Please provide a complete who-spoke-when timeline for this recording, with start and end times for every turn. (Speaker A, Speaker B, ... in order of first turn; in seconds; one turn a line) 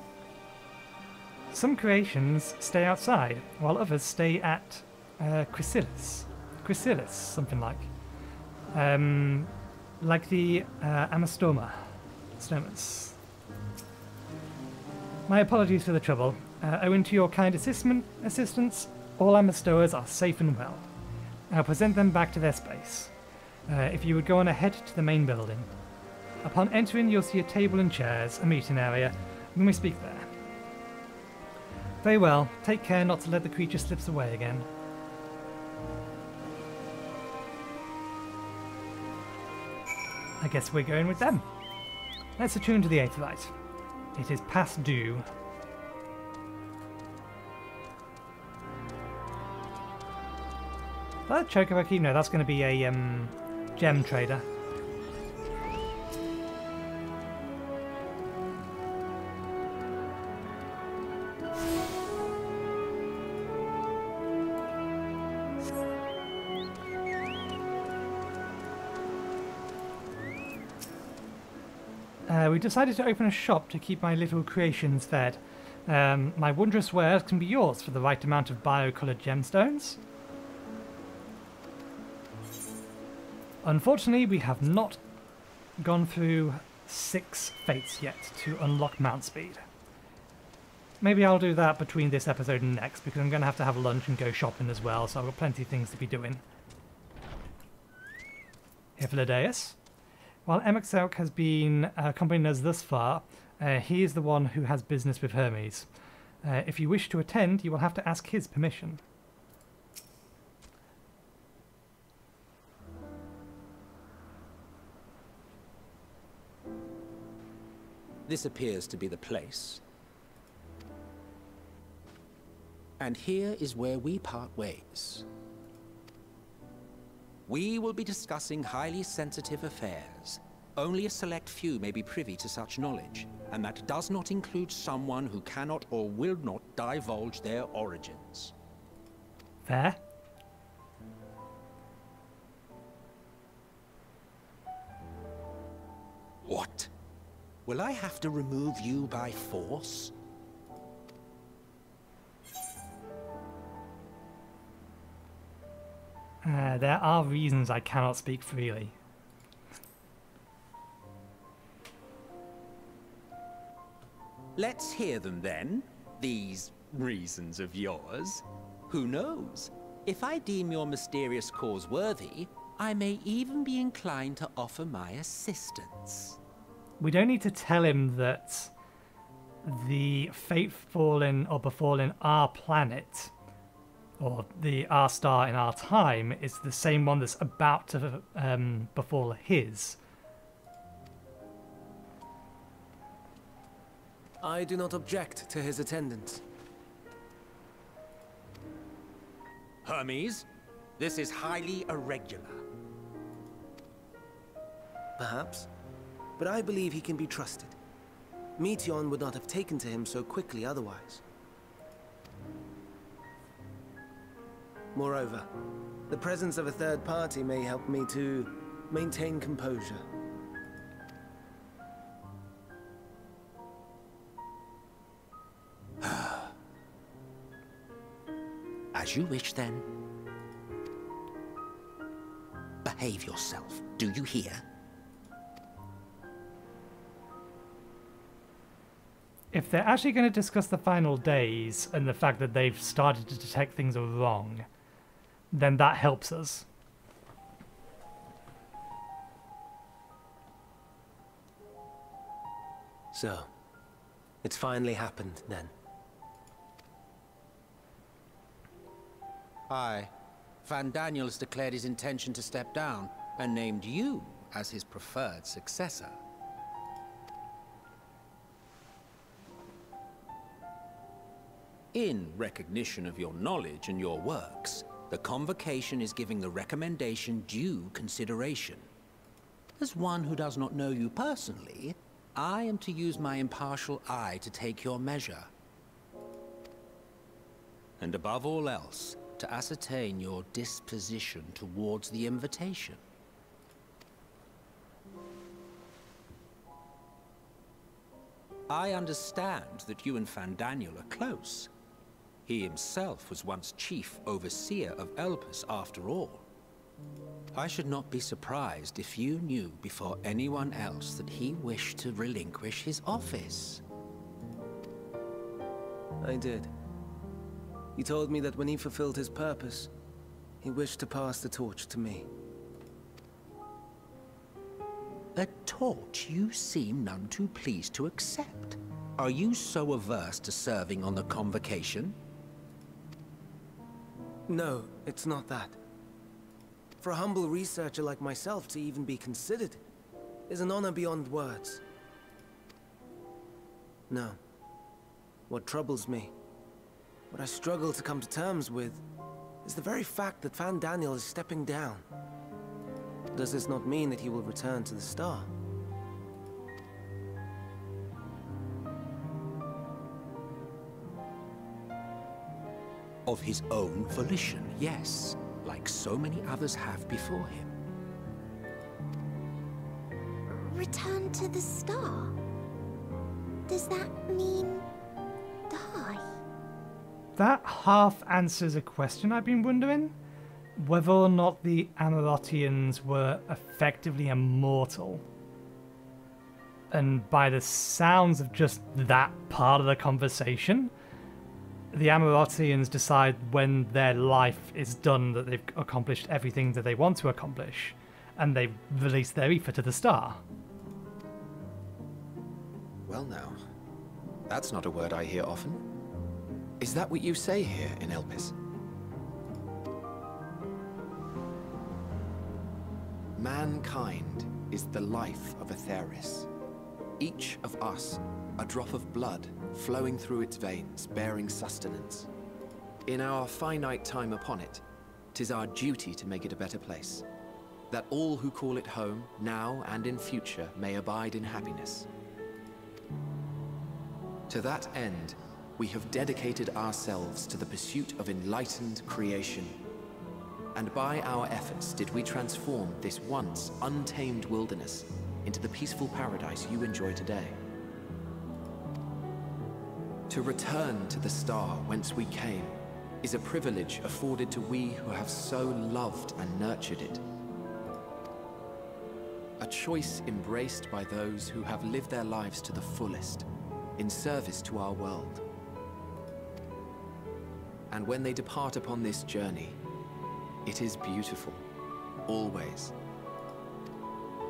Speaker A: 1.5-7.9
Speaker A: 8.7-13.2
Speaker A: 15.3-20.9
Speaker A: 21.5-23.1
Speaker A: 23.7-25.7
Speaker A: 26.4-30.3
Speaker A: 32.0-34.7
Speaker A: 40.4-41.5
Speaker A: 42.4-43.5
Speaker A: 44.1-45.3
Speaker A: 51.3-54.5
Speaker A: 72.3-80.0
Speaker A: 83.6-85.0
Speaker A: 85.8-89.7
Speaker A: 91.0-96.4
Speaker A: 99.0-99.8
Speaker A: 100.5-105.9
Speaker A: 106.4-109.0
Speaker B: 118.3-119.8
Speaker B: 123.0-125.3
Speaker B: 127.5-138.5
Speaker A: 139.7-140.0
Speaker B: 146.4-146.9
Speaker B: 147.7-150.1
Speaker A: 156.4-158.9
Speaker B: 164.6-176.4
Speaker A: 177.0-178.7
Speaker A: 179.6-183.3
Speaker A: 184.2-190.0
Speaker C: 194.4-196.4
Speaker B: 199.8-200.5
Speaker B: 201.0-202.6
Speaker C: 205.2-205.7
Speaker C: 206.4-207.8
Speaker C: 208.6-211.2
Speaker C: 214.9-215.5
Speaker C: 216.1-220.1
Speaker B: 226.0-226.5
Speaker B: 228.9-229.9
Speaker B: 232.8-234.7
Speaker A: 239.5-244.7
Speaker A: 245.5-246.7
Speaker C: 253.1-253.5
Speaker C: 254.4-255.7
Speaker B: 259.7-260.1
Speaker B: 260.6-266.2
Speaker B: 271.9-278.9
Speaker B: 279.8-285.5
Speaker B: 288.0-293.0
Speaker B: 298.7-301.7
Speaker B: 302.5-306.4
Speaker B: 307.5-313.8
Speaker C: 316.2-316.7
Speaker C: 318.0-319.9
Speaker C: 320.6-322.3
Speaker B: 325.4-332.1
Speaker C: 334.5-335.8
Speaker C: 337.0-339.8
Speaker C: 340.5-341.8
Speaker C: 344.1-344.4
Speaker C: 345.5-346.3
Speaker C: 347.3-349.0
Speaker C: 349.6-352.1
Speaker C: 353.3-355.5
Speaker B: 363.3-367.7
Speaker D: 370.7-372.4
Speaker D: 373.7-374.9
Speaker D: 375.7-376.2
Speaker A: 377.4-380.1
Speaker A: 380.8-385.2
Speaker A: 386.9-390.9
Speaker A: 391.9-400.4
Speaker E: 403.1-403.6
Speaker E: 404.5-405.9
Speaker E: 406.8-408.6
Speaker E: 413.4-416.5
Speaker E: 417.2-422.3
Speaker E: 423.1-427.3
Speaker E: 427.9-432.1
Speaker E: 434.5-439.8
Speaker E: 440.7-447.6
Speaker E: 450.3-457.2
Speaker E: 459.6-463.5
Speaker E: 464.0-465.4
Speaker E: 467.9-469.8
Speaker E: 470.6-471.6
Speaker E: 472.3-472.9